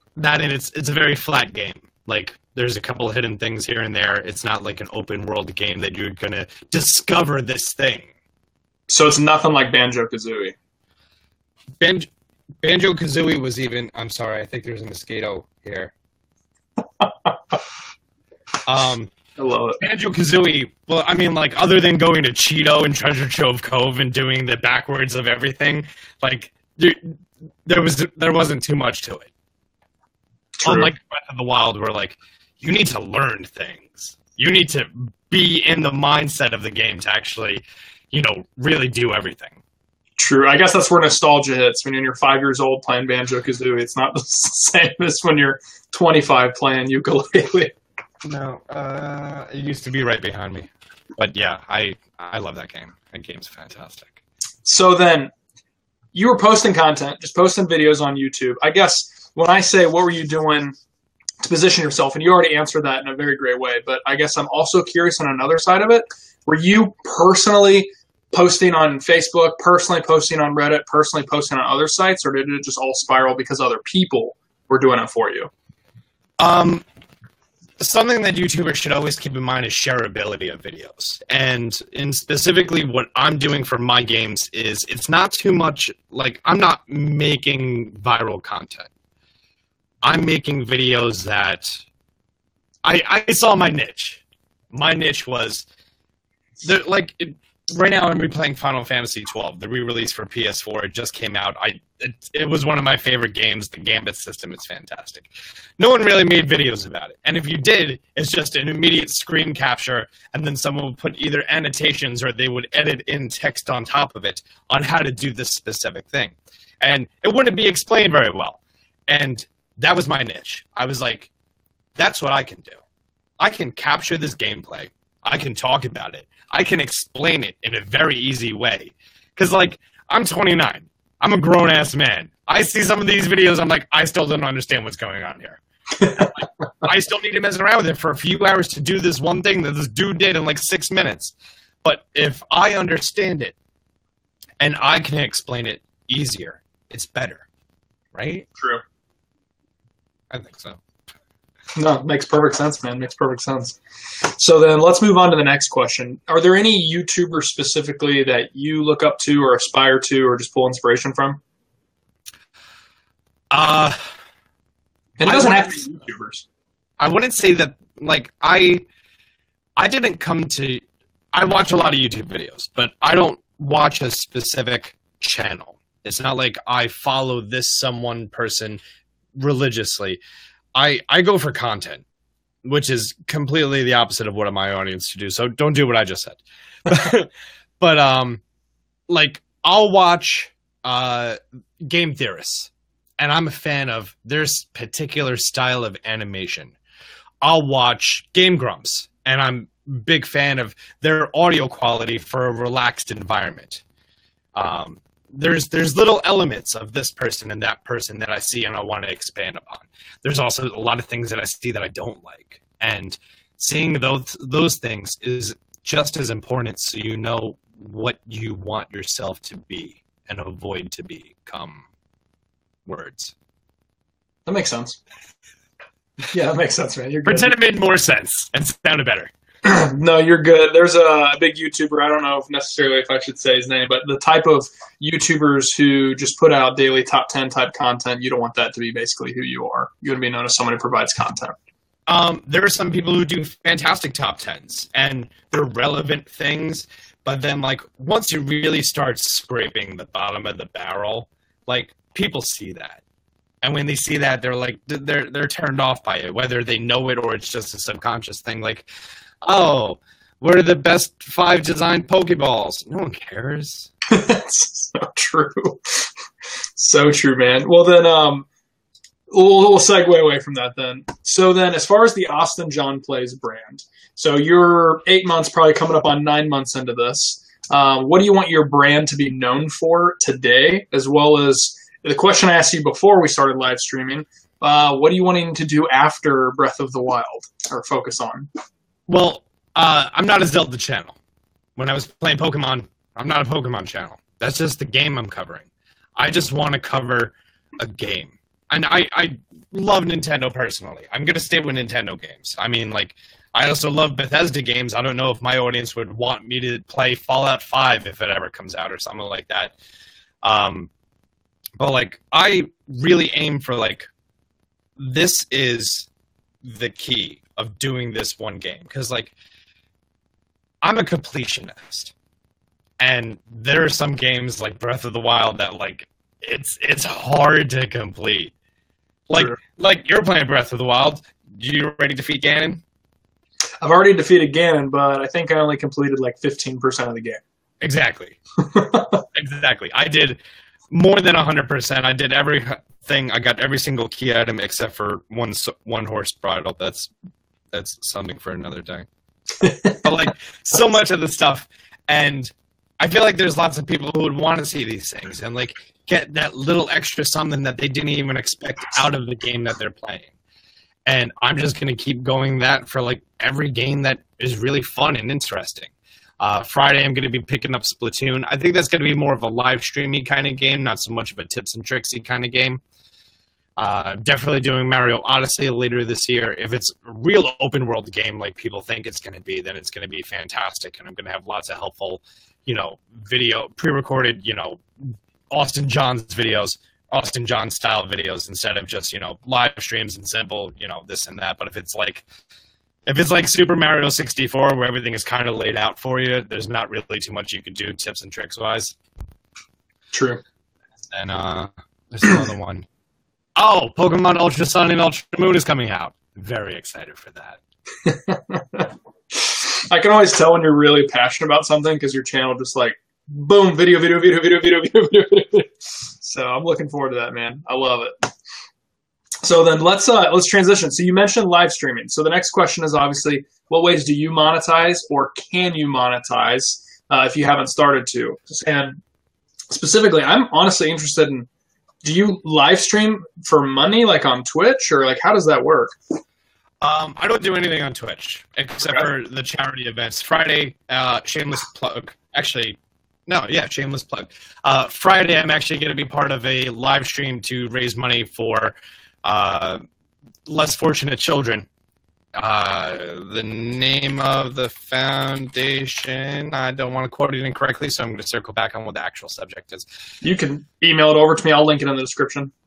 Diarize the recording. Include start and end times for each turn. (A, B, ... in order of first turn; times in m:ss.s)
0:00.2-0:08.1 A
0:08.9-0:10.6 B
0:11.8-0:12.1 A
0:12.6-0:15.9 A
0:17.0-0:17.3 B
0:18.7-0:19.1 A
0:19.4-0:19.8 B
0:19.8-0:29.3 A
0:30.6-0:30.9 B
0:30.6-0:39.6 A
0:40.2-0:47.8 B
0:48.2-0:54.2 A
0:54.6-0:55.3 B
0:56.1-1:00.7 B
1:01.4-1:15.5 B
1:16.4-1:16.8 A
1:17.8-1:28.9 A
1:30.0-1:31.8 A
1:32.8-1:35.7 A
1:36.6-2:01.3 A
2:02.0-2:02.8 A
2:03.4-2:23.6 A
2:16.0-2:16.3 B
2:24.6-2:27.5 A
2:28.1-2:28.5 A
2:30.3-2:30.8 A
2:31.8-2:41.4 B
2:43.5-2:44.0 A
2:45.2-2:46.4 B
2:45.2-2:45.8 A
2:47.0-2:48.8 A
2:49.8-2:58.8 A
2:59.4-3:00.2 A
3:00.8-3:02.0 A
3:02.6-3:08.4 A
3:09.1-3:16.8 A
3:17.4-3:23.8 A
3:24.6-3:41.8 A
3:42.9-3:43.3 A
3:44.5-3:45.0 B
3:46.3-3:47.6 B
3:47.2-3:49.3 A
3:49.6-4:01.6 B
4:02.1-4:13.0 A
4:13.6-4:18.9 A
4:19.4-4:23.9 A
4:24.1-4:26.1 B
4:26.8-4:28.5 B
4:29.3-4:48.5 B
4:49.1-4:51.2 A
4:51.8-5:09.8 A
5:10.4-5:10.9 A
5:11.8-5:14.1 A
5:15.0-5:16.1 A
5:16.6-5:19.3 A
5:20.8-5:22.1 A
5:23.0-5:28.5 A
5:29.3-5:32.8 A
5:33.8-5:37.4 B
5:37.8-5:38.4 A
5:38.6-5:39.2 B
5:39.3-5:40.4 A
5:40.9-5:47.1 A
5:47.7-5:49.1 A
5:49.6-5:50.0 B
5:49.8-6:00.3 A
6:01.1-6:12.8 A
6:13.8-6:32.2 A
6:33.1-6:39.0 A
6:40.1-6:40.4 B
6:41.1-6:42.9 A
6:43.6-6:47.6 A
6:48.0-6:58.1 B
6:59.4-7:09.0 B
7:09.7-7:11.5 B
7:12.0-7:16.0 B
7:16.8-7:29.8 A
7:30.5-7:31.7 A
7:32.4-7:39.9 A
7:40.2-7:42.5 B